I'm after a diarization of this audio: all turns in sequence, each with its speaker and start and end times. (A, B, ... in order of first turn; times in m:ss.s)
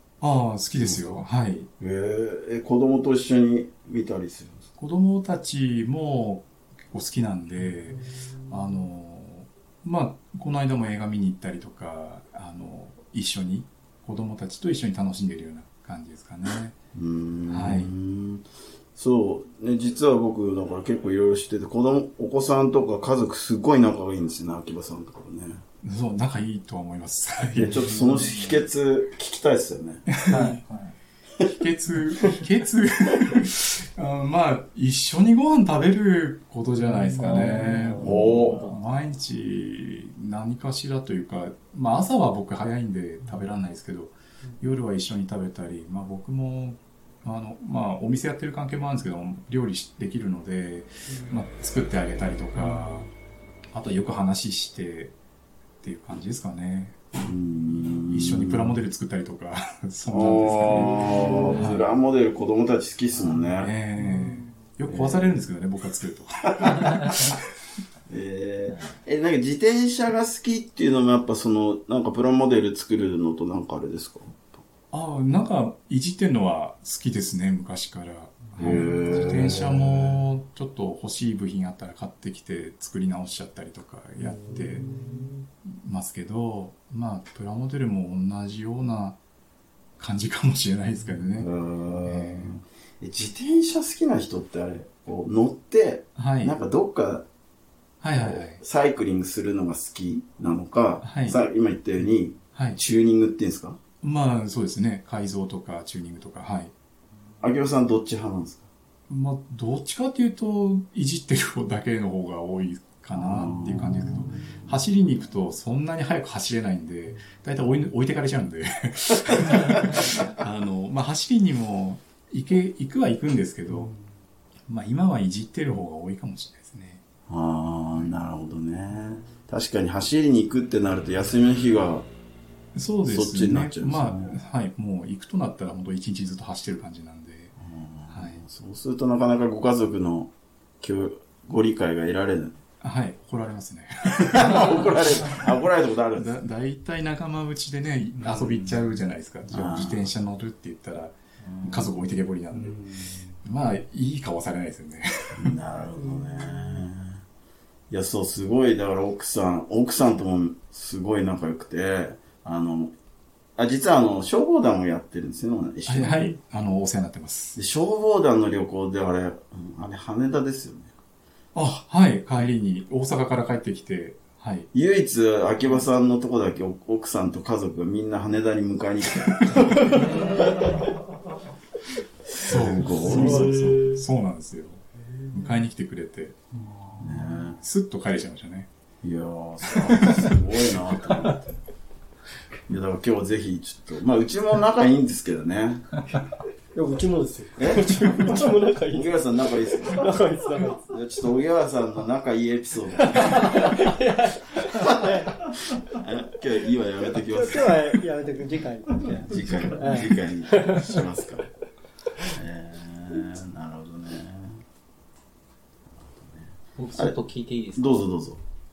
0:00.2-0:01.7 A
0:00.8-0:01.2 B
0:01.8-0:04.6 B
0:04.8-0:16.8 A
0:16.9-0:25.6 B
0:17.5-0:17.9 A
0:25.8-0:28.2 A
0:27.6-0:30.0 B
0:30.1-0:30.6 A
0:30.3-0:30.9 C
0:31.4-0:53.1 A
0:37.2-0:38.8 C
0:38.0-0:38.6 B
0:53.7-0:55.1 A
0:55.8-0:57.0 A
0:57.2-0:58.8 B
0:58.1-1:01.9 A
1:00.1-1:03.7 B
1:03.2-1:06.9 A
1:04.9-1:05.4 B
1:06.6-1:06.9 B
1:08.1-1:14.6 B
1:14.9-1:24.9 A
1:18.6-1:20.2 B
1:24.2-1:24.9 B
1:25.7-1:29.2 A
1:30.0-1:31.5 A
1:31.4-1:37.3 B
1:32.0-1:32.6 A
1:36.1-1:36.6 A
1:38.0-1:38.6 A
1:38.2-1:43.8 B
1:41.0-1:41.4 A
1:42.5-1:42.8 A
1:44.0-1:46.7 A
1:47.4-1:48.7 B
1:49.1-2:03.9 A
1:53.1-1:54.6 B
2:04.7-2:07.0 A
2:07.3-2:12.1 B
2:12.7-2:17.6 A
2:13.0-2:14.3 B
2:17.6-2:22.6 B
2:18.1-2:18.4 A
2:22.8-2:25.5 A
2:24.3-2:26.3 B
2:26.1-2:32.8 A
2:28.2-2:28.8 B
2:29.5-2:30.0 B
2:31.6-2:31.9 B
2:32.7-2:33.2 B
2:33.4-2:35.5 A
2:35.4-2:37.2 B
2:37.9-2:42.9 B
2:43.6-2:46.3 B
2:45.9-2:47.6 A
2:47.6-2:50.9 B
2:51.5-2:54.7 A
2:54.7-3:00.8 B
2:59.8-3:00.6 C
3:02.3-3:04.0 B
3:02.4-3:06.4 A
3:07.0-3:07.6 B
3:07.6-3:08.7 A
3:09.0-3:11.6 B
3:09.7-3:10.4 A
3:12.7-3:16.0 B
3:16.7-3:20.9 D
3:17.6-3:20.1 B
3:20.9-3:23.6 B
3:23.0-3:25.4 D
3:24.7-3:27.8 B
3:27.2-3:29.1 D
3:28.9-3:31.5 B
3:29.7-3:31.0 D
3:32.3-3:34.6 B
3:36.0-3:37.2 B
3:36.8-3:38.0 C
3:37.7-3:38.4 B